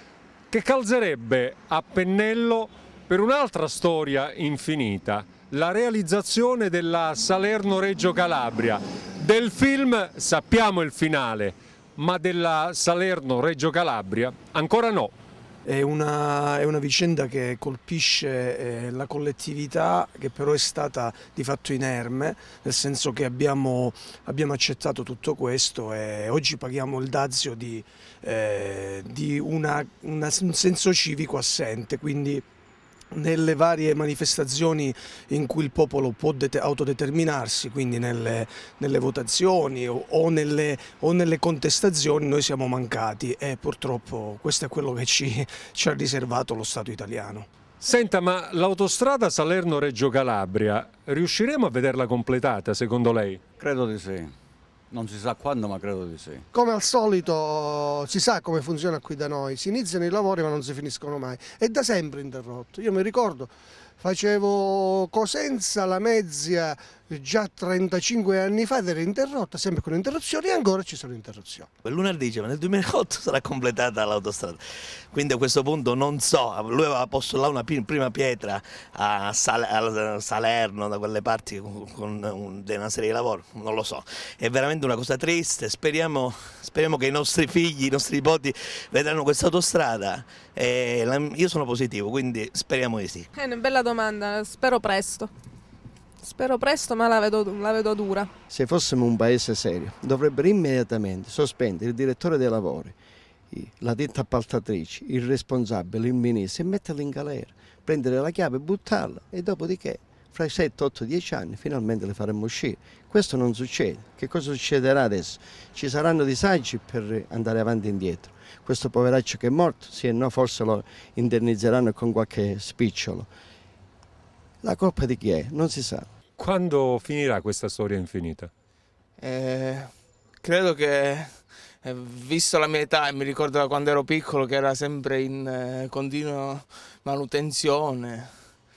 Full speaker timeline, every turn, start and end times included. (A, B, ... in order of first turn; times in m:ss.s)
0:00.5-0:15.1 A
0:15.6-0:32.4 B
0:33.1-0:47.5 B
0:47.8-0:53.4 A
0:53.6-0:54.3 C
0:54.9-0:56.4 C
0:56.5-1:11.7 D
1:11.8-1:14.6 E
1:15.1-1:33.3 E
1:33.4-1:35.3 F
1:36.2-1:38.3 F
1:38.5-1:42.9 G
1:43.5-2:03.3 G
2:04.6-2:06.1 G
2:06.4-2:08.5 A
2:09.2-2:18.6 H